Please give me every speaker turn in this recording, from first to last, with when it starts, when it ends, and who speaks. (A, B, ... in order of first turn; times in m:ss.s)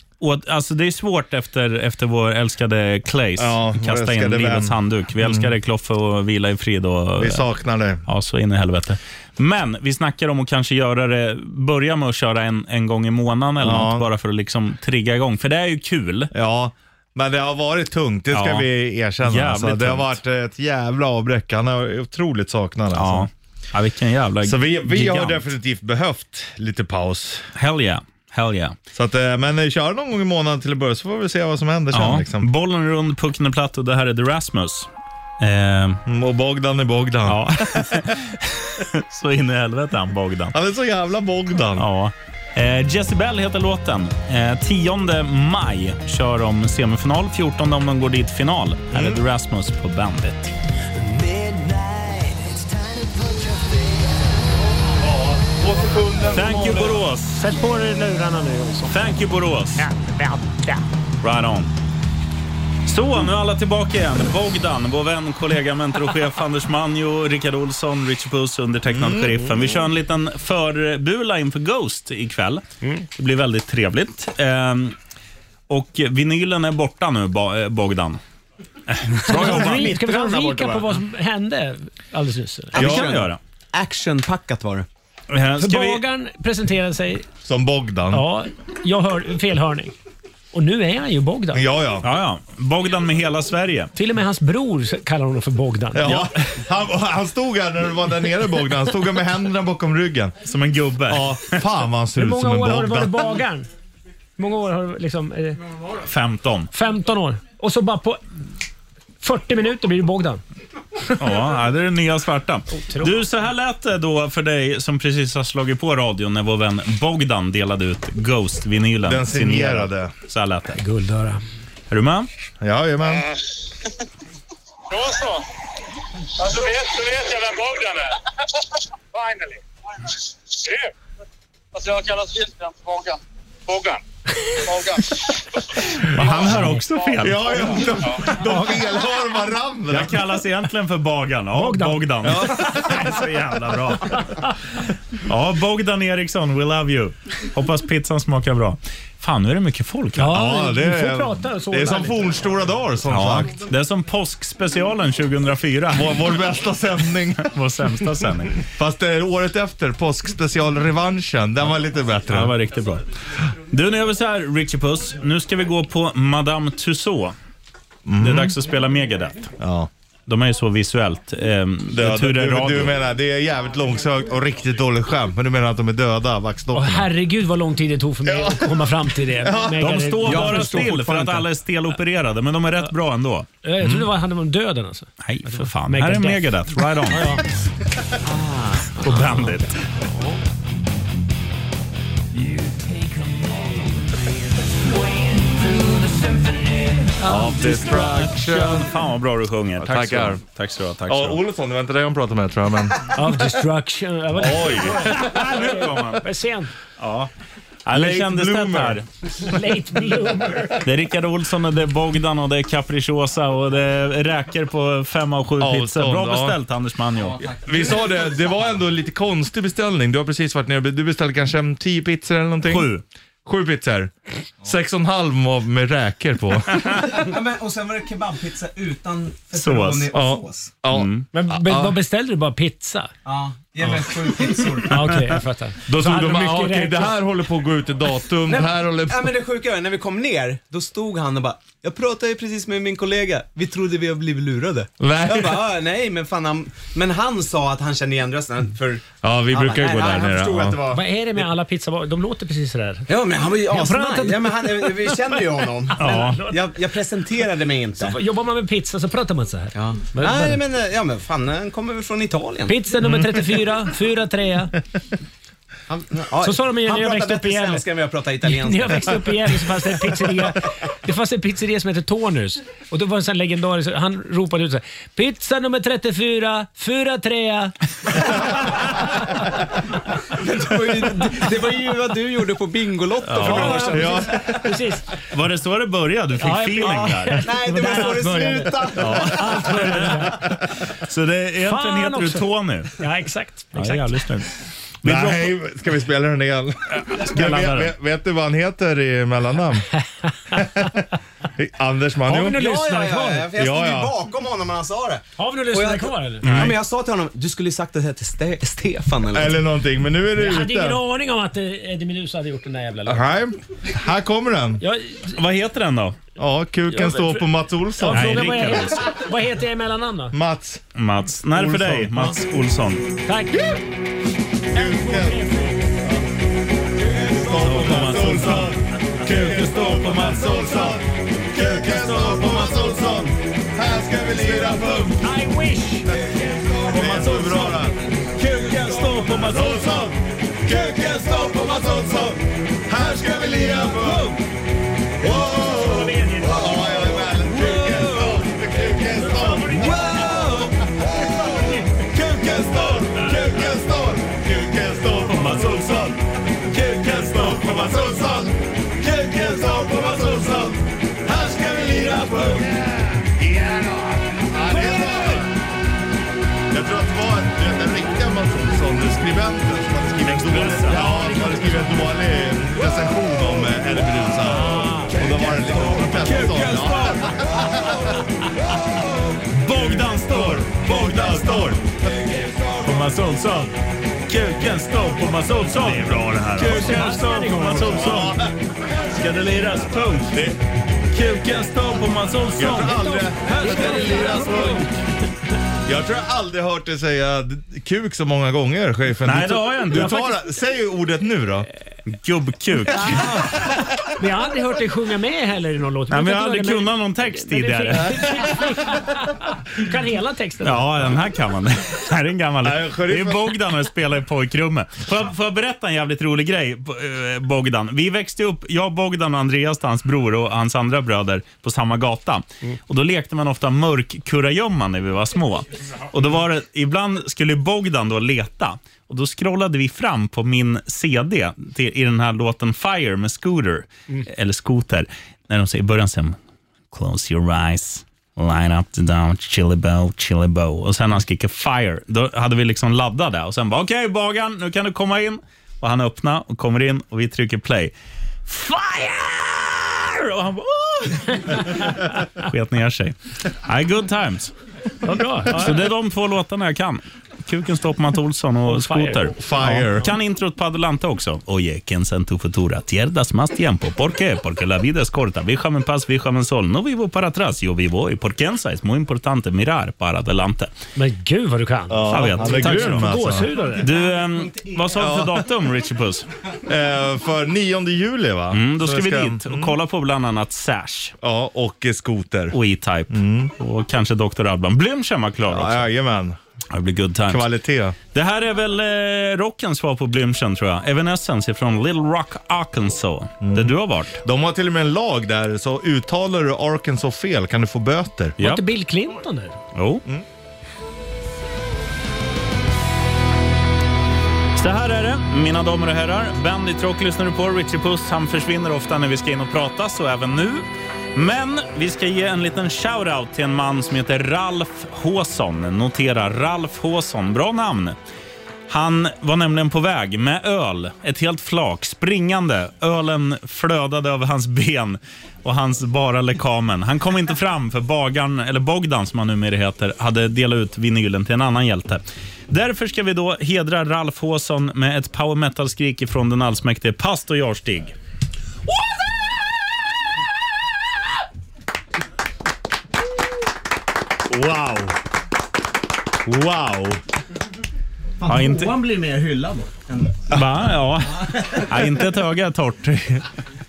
0:00.2-0:07.5 A
0:03.4-0:05.5 B
0:07.2-0:08.0 B
0:08.1-0:16.3 A
0:13.6-0:14.0 B
0:16.3-0:23.3 B
0:18.3-0:18.7 A
0:19.2-0:20.2 A
0:22.9-0:25.4 A
0:24.4-0:27.5 B
0:27.6-0:28.8 A
0:28.9-0:32.5 B
0:31.9-0:34.9 A
0:35.4-0:36.0 A
0:36.1-0:38.1 B
0:37.3-0:40.6 A
0:40.5-0:41.9 B
0:41.8-0:50.5 A
0:48.9-0:49.2 B
0:55.0-0:57.0 B
0:56.3-0:57.5 A
0:57.3-0:59.0 C
0:58.9-0:59.9 A
0:59.8-1:00.8 C
1:01.2-1:01.7 A
1:02.9-1:15.0 A
1:08.9-1:09.4 B
1:15.7-1:18.2 A
1:18.9-1:20.0 A
1:19.2-1:22.8 C
1:19.4-1:20.8 D
1:22.8-1:23.4 A
1:22.8-1:24.9 D
1:22.8-1:23.1 B
1:25.3-1:26.0 A
1:25.6-1:27.3 C
1:27.4-1:28.3 B
1:28.1-1:30.0 C
1:30.5-1:31.7 C
1:31.5-1:32.1 B
1:32.0-1:33.9 A
1:34.0-1:36.3 C
1:35.9-1:40.4 B
1:40.4-1:41.6 A
1:41.1-1:43.3 B
1:42.2-1:43.7 C
1:44.4-1:45.6 C
1:46.0-1:46.7 A
1:46.7-1:48.2 C
1:49.2-1:50.4 C
1:51.2-2:00.8 A
1:52.7-1:53.2 C
1:59.0-2:00.1 B
2:00.8-2:01.4 C
2:01.9-2:02.3 A
2:02.6-2:03.3 B
2:04.9-2:05.4 E
2:06.4-2:10.9 E
2:11.7-2:14.0 E
2:14.6-2:15.4 E
2:16.1-2:17.9 A
2:16.2-2:18.3 E
2:16.5-2:16.8 C
2:17.2-2:20.2 B
2:18.5-2:18.8 C
2:19.9-2:24.5 A
2:21.5-2:22.1 C
2:22.2-2:23.0 B
2:25.2-2:30.4 A
2:30.2-2:32.4 C
2:30.3-2:33.6 B
2:33.1-2:36.2 A
2:35.9-2:37.5 B
2:37.4-2:38.7 A
2:38.7-2:42.6 B
2:42.3-2:43.0 A
2:43.7-2:47.4 A
2:48.1-2:48.6 B
2:48.2-2:49.5 A
2:49.6-2:49.9 B
2:50.3-2:52.9 A
2:51.9-2:57.1 B
2:56.7-3:01.4 C
2:58.3-2:58.7 B
2:59.4-2:59.9 B
2:59.8-3:03.5 A
3:00.3-3:01.0 D
3:03.6-3:07.4 C
3:05.2-3:07.4 A
3:08.3-3:08.9 D
3:09.0-3:09.9 A
3:09.0-3:09.6 C
3:12.4-3:13.7 C
3:15.1-3:18.2 C
3:17.2-3:18.9 B
3:17.6-3:21.4 A
3:19.8-3:20.4 B
3:21.1-3:23.1 B
3:23.1-3:26.7 C
3:24.4-3:25.1 B
3:25.0-3:26.3 A
3:27.0-3:27.3 A
3:27.9-3:29.1 A
3:27.9-3:29.0 B
3:29.4-3:30.9 C
3:30.8-3:37.4 A
3:35.6-3:36.6 B
3:37.2-3:38.7 D
3:37.6-3:42.9 B
3:42.7-3:43.0 A
3:43.4-3:44.1 B
3:44.6-3:46.9 B
3:46.8-3:47.0 A
3:47.1-3:50.7 D
3:49.5-3:50.1 A
3:50.1-3:51.1 B
3:50.9-3:51.3 A
3:51.3-3:53.1 C
3:51.6-3:51.9 B
3:53.2-3:55.1 D
3:54.8-3:57.2 C
3:55.9-3:59.3 B
3:58.5-4:11.0 D
4:05.0-4:05.7 B
4:09.2-4:10.8 B
4:10.9-4:13.1 C
4:13.1-4:18.2 D
4:13.6-4:16.8 C
4:16.0-4:16.4 A
4:18.0-4:20.6 C
4:19.8-4:22.8 D
4:22.7-4:24.8 C
4:25.9-4:29.6 D
4:26.4-4:27.9 C
4:28.4-4:37.7 C
4:40.3-4:44.2 D
4:43.3-4:45.0 C
4:43.4-4:43.8 A
4:43.8-4:44.4 B
4:45.3-4:47.5 A
4:46.4-4:50.6 C
4:46.9-4:49.5 D
4:49.0-4:49.6 B
4:49.2-4:49.9 A
4:51.1-4:53.0 A
4:51.6-4:54.4 C
4:53.7-4:54.5 A
4:55.0-4:55.6 A
4:55.0-4:59.9 B
4:57.0-4:57.9 A
5:00.5-5:01.1 B
5:01.6-5:02.6 B
5:02.2-5:03.5 C
5:02.5-5:09.6 D
5:03.6-5:04.1 B
5:05.4-5:06.7 C
5:06.4-5:06.8 A
5:09.3-5:11.0 B
5:10.4-5:13.3 C
5:13.1-5:14.8 B
5:14.8-5:15.4 C
5:15.3-5:16.2 A
5:16.4-5:18.5 B
5:16.9-5:20.4 C
5:18.1-5:19.1 A
5:20.3-5:20.8 B
5:21.0-5:23.1 A
5:21.6-5:22.3 B
5:23.3-5:23.6 C
5:24.7-5:26.0 C
5:24.7-5:25.4 B
5:27.2-5:35.2 B
5:27.5-5:31.0 A
5:31.6-5:33.3 A
5:35.2-5:36.1 C
5:36.9-5:37.9 B
5:36.9-5:37.8 C
5:37.0-5:37.3 A
5:38.4-5:40.1 A
5:39.3-5:44.3 B
5:40.8-5:41.2 A
5:44.0-5:44.3 A
5:45.2-5:50.6 B
5:45.3-5:47.2 C
5:47.5-5:48.4 A
5:49.1-5:50.5 C
5:49.9-5:50.4 A
5:51.2-5:51.8 C
5:52.0-5:56.2 B
5:55.3-5:56.2 A
5:56.7-6:05.5 B
5:56.8-5:57.9 A
6:01.8-6:02.7 A
6:04.7-6:05.4 C
6:06.7-6:18.0 B
6:10.2-6:11.3 A
6:10.9-6:12.0 C
6:14.5-6:15.5 C
6:15.7-6:17.6 A
6:19.5-6:21.8 A
6:19.7-6:21.9 B
6:22.8-6:23.8 A
6:24.3-6:28.4 A
6:25.8-6:26.9 B
6:26.6-6:28.3 C
6:27.9-6:28.5 B
6:29.1-6:30.4 A
6:30.2-6:30.6 B
6:31.1-6:34.0 A
6:32.6-6:34.9 B
6:32.7-6:34.9 C
6:35.9-6:41.7 B
6:39.2-6:40.4 A
6:42.1-6:43.4 A
6:42.9-6:43.6 C
6:44.2-6:50.9 C
6:46.1-6:48.6 A
6:50.6-7:16.4 A
6:52.6-6:53.5 B
7:16.9-7:27.9 A
7:28.5-7:34.5 A
7:31.3-7:31.7 C
7:35.0-7:35.9 C
7:35.5-7:50.7 A
7:38.6-7:39.9 C
7:39.4-7:40.1 B
7:51.0-7:53.9 C
7:51.9-7:53.5 B
7:52.1-7:56.3 A
7:53.7-7:55.0 D
7:55.0-7:55.4 B
7:56.7-7:59.7 B
7:58.5-8:01.1 A
8:01.2-8:02.6 B
8:02.5-8:05.9 A
8:03.1-8:03.5 B
8:05.5-8:06.4 B
8:06.7-8:07.5 A
8:07.3-8:08.0 B
8:08.1-8:14.2 A
8:13.4-8:18.4 B
8:18.4-8:18.7 A
8:18.4-8:19.6 C
8:19.8-8:20.0 A
8:24.6-8:38.0 A
8:38.7-8:57.9 A
9:04.3-9:04.9 B
9:06.3-9:07.0 A
9:08.2-9:10.3 D
9:08.3-9:08.8 A
9:10.3-9:13.2 A